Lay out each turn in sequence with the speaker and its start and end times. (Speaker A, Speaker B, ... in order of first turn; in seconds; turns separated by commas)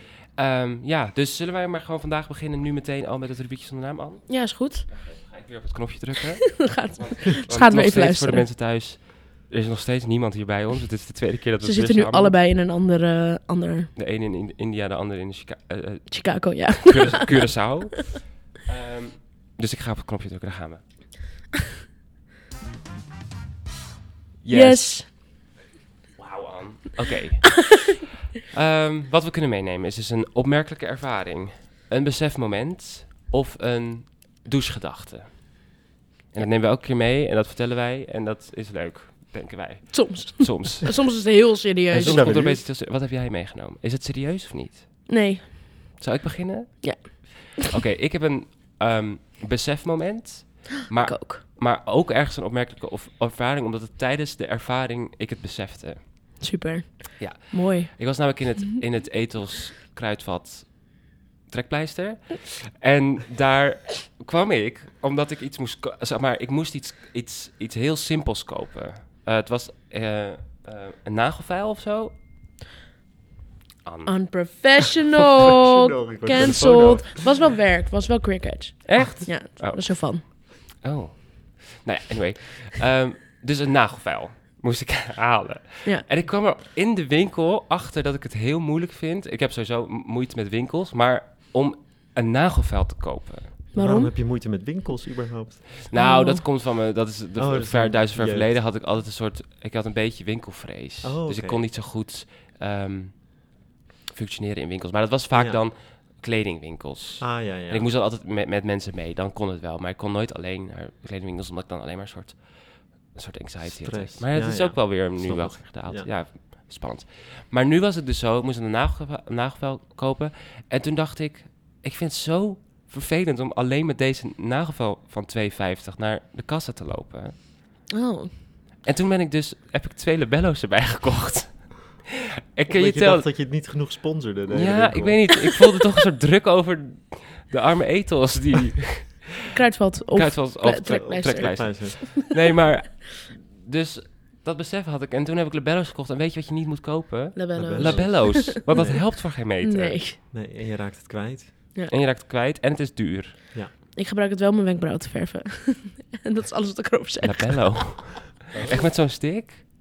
Speaker A: 0.3-12.4, Speaker B: 4.3-4.9, Speaker B: 6.6-8.5, Speaker B: 11.6-13.9, Speaker A: 14.0-20.8, Speaker B: 16.1-17.3, Speaker A: 24.4-25.2, Speaker B: 24.5-25.1, Speaker A: 26.2-35.7, Speaker A: 36.3-41.3, Speaker B: 39.9-42.4, Speaker C: 41.9-42.7, Speaker A: 41.9-45.5, Speaker B: 45.1-46.0, Speaker A: 46.0-56.4, Speaker B: 46.8-47.7, Speaker B: 51.0-51.4, Speaker B: 56.4-58.0, Speaker A: 57.2-72.2, Speaker A: 73.8-74.4, Speaker B: 74.1-80.2, Speaker C: 75.5-77.3, Speaker A: 76.4-77.0, Speaker A: 78.9-93.6, Speaker B: 93.7-94.1, Speaker C: 93.8-95.8, Speaker A: 95.9-103.6, Speaker B: 96.0-96.4, Speaker C: 97.4-98.6, Speaker C: 101.0-101.6, Speaker A: 104.1-127.4, Speaker C: 105.3-105.7, Speaker C: 107.2-107.9, Speaker C: 113.6-116.1, Speaker B: 127.9-128.3, Speaker A: 128.8-132.0, Speaker A: 132.6-133.3, Speaker C: 132.7-135.4, Speaker A: 134.5-139.3, Speaker B: 139.5-142.0, Speaker A: 139.9-150.0, Speaker C: 140.9-142.2, Speaker B: 147.3-150.2, Speaker C: 147.6-149.1, Speaker C: 150.3-151.7, Speaker A: 151.9-153.3, Speaker B: 153.9-157.8, Speaker A: 157.2-159.6, Speaker C: 158.5-158.9